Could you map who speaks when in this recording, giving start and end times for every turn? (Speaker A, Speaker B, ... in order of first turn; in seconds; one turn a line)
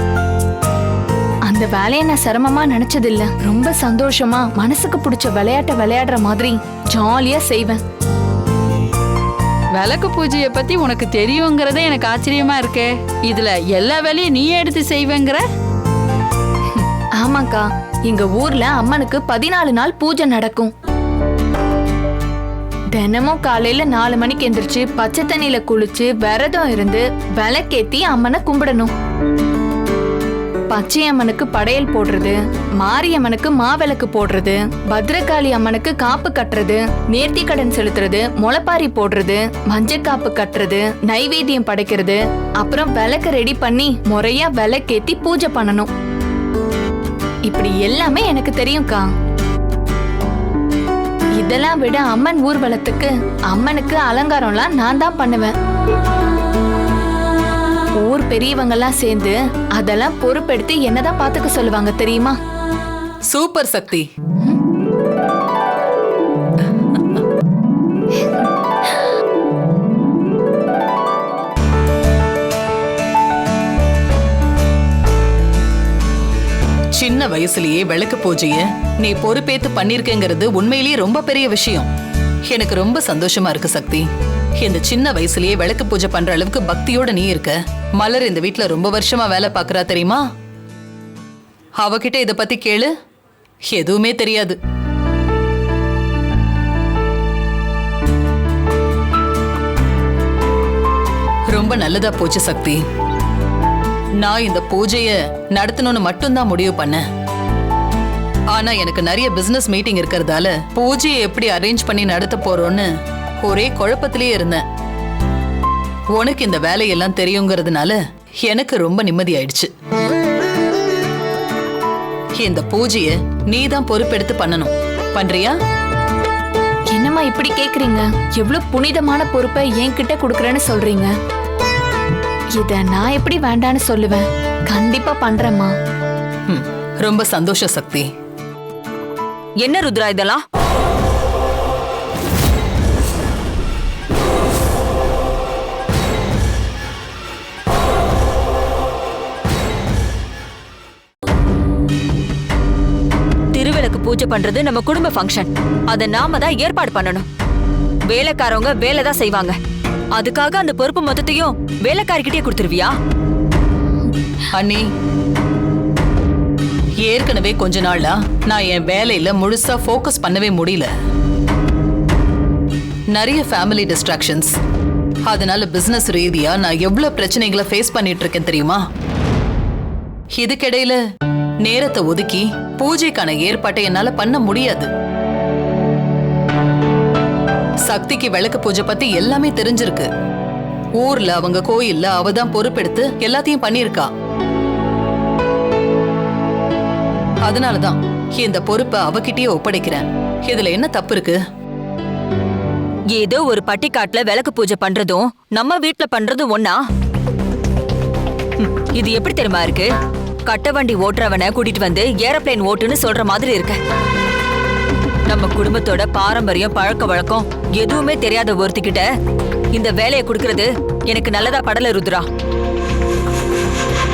Speaker A: 1.4-7.8
Speaker B: 9.7-15.4
Speaker A: 16.8-20.7
Speaker A: 22.9-28.9
Speaker A: 30.7-45.9
Speaker A: 47.5-49.1
Speaker A: 51.4-55.5
Speaker A: 58.0-62.4
Speaker C: 63.3-64.1
Speaker C: 77.0-81.9
Speaker C: 82.5-84.1
Speaker C: 84.6-90.2
Speaker C: 91.8-92.9
Speaker C: 93.7-94.6
Speaker C: 101.5-102.8
Speaker C: 104.2-107.0
Speaker C: 108.5-112.9
Speaker C: 113.4-114.6
Speaker C: 116.1-119.7
Speaker C: 122.4-125.5
Speaker A: 126.9-131.1
Speaker A: 132.6-135.7
Speaker C: 136.5-138.1
Speaker D: 139.6-140.4
Speaker D: 153.5-157.2
Speaker D: 158.1-159.5
Speaker D: 160.1-162.9
Speaker C: 164.5-164.9
Speaker C: 167.0-170.9
Speaker C: 173.1-174.5
Speaker C: 175.2-178.8
Speaker C: 180.3-181.0
Speaker C: 181.6-184.9
Speaker C: 187.8-190.1
Speaker C: 191.0-194.1
Speaker C: 197.4-201.4
Speaker D: 203.1-206.8
Speaker D: 208.6-209.9
Speaker D: 210.5-213.8
Speaker D: 215.3-219.1
Speaker D: 219.7-222.3